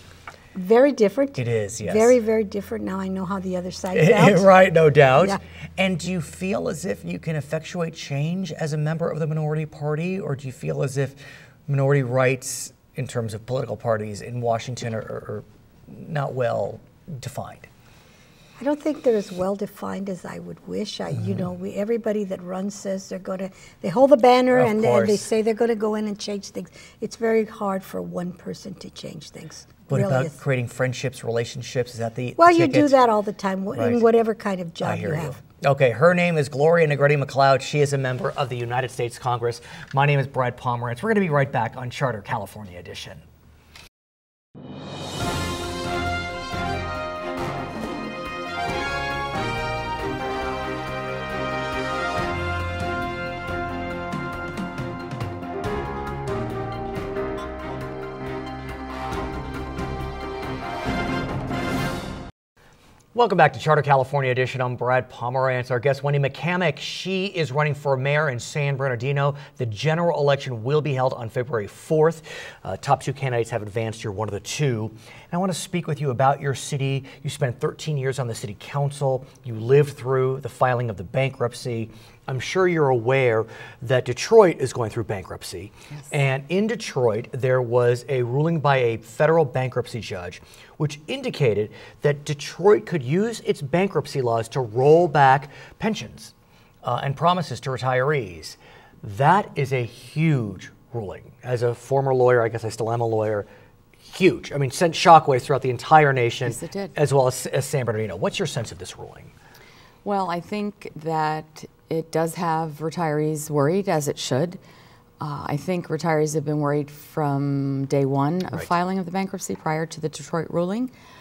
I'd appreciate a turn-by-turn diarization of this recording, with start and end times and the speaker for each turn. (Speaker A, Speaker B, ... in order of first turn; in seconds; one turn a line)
Speaker A: 0.5-4.5
Speaker B: 1.4-2.1
Speaker B: 3.9-17.7
Speaker A: 18.6-30.3
Speaker B: 24.5-25.3
Speaker B: 29.9-32.9
Speaker A: 32.4-35.4
Speaker B: 33.7-34.0
Speaker B: 34.8-43.2
Speaker B: 63.1-103.5
Speaker B: 104.0-109.3
Speaker C: 106.4-106.9
Speaker C: 110.0-114.6
Speaker C: 115.2-120.9